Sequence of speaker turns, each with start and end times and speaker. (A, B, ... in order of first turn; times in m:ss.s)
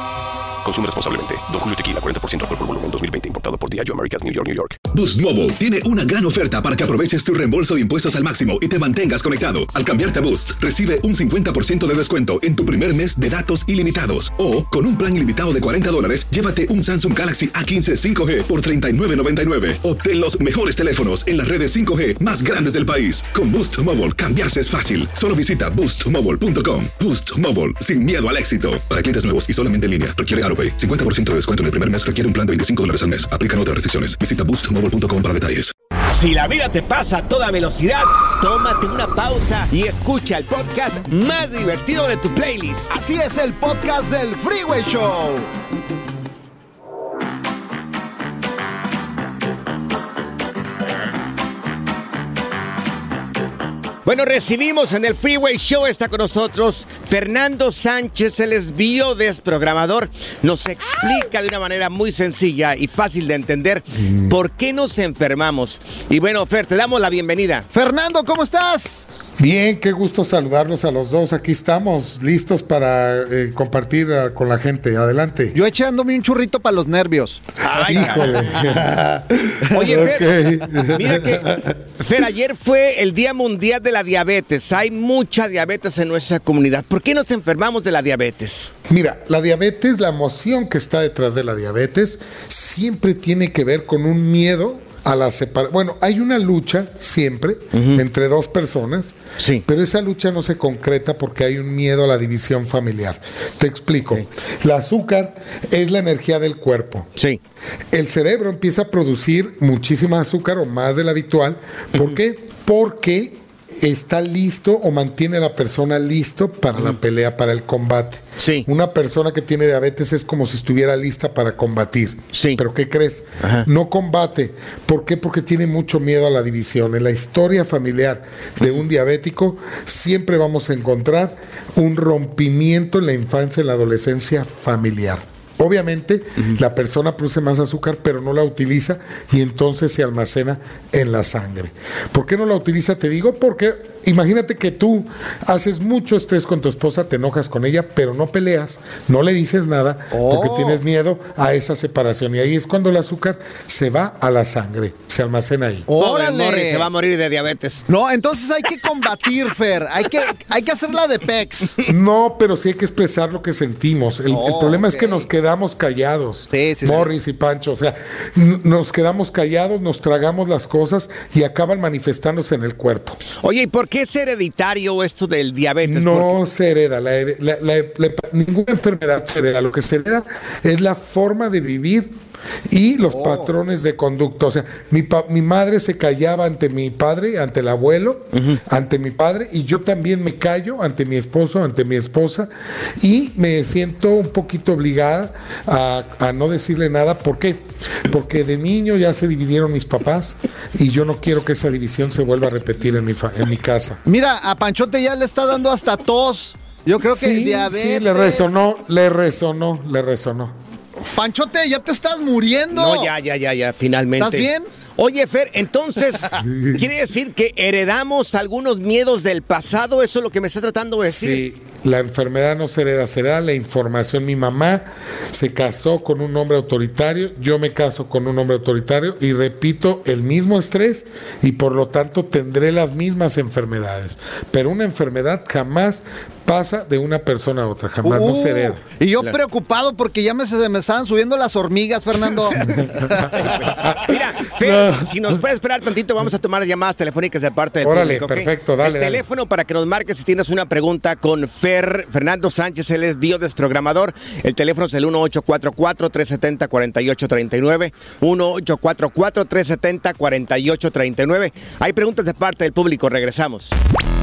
0:00.6-0:04.8 A
0:04.9-0:35.7 B
0:36.1-0:42.9 C
0:42.9-0:45.5 D
0:54.0-1:07.7 C
1:07.7-1:09.1 D
1:09.4-1:15.6 E
1:15.5-1:17.4 D
1:17.6-1:18.6 C
1:17.8-1:21.7 E
1:19.7-1:20.3 C
1:20.9-1:28.7 C
1:28.9-1:47.1 E
1:37.7-1:38.0 C
1:39.4-1:39.6 C
1:47.2-1:47.4 C
1:47.9-2:35.9 E
1:56.8-1:57.0 C
1:58.4-1:58.7 C
2:02.3-2:02.6 C
2:03.4-2:03.7 C
2:30.1-2:30.8 D
2:35.9-2:36.9 D
2:36.0-2:37.9 C
2:37.9-2:41.8 D
2:41.8-2:53.2 E
2:44.3-2:45.3 D
2:46.5-2:47.1 D
2:53.4-2:56.4 C
2:55.8-3:02.1 E
3:02.7-3:24.0 E
3:03.1-3:03.5 D
3:08.3-3:08.6 C
3:24.0-3:28.6 D
3:27.1-3:30.6 E
3:31.0-3:33.1 D
3:32.7-3:41.4 C
3:34.2-3:34.7 D
3:36.4-3:36.8 E
3:41.0-3:58.8 E
3:58.0-4:02.6 D
4:03.0-4:05.2 E
4:03.5-4:23.8 C
4:07.8-4:09.2 E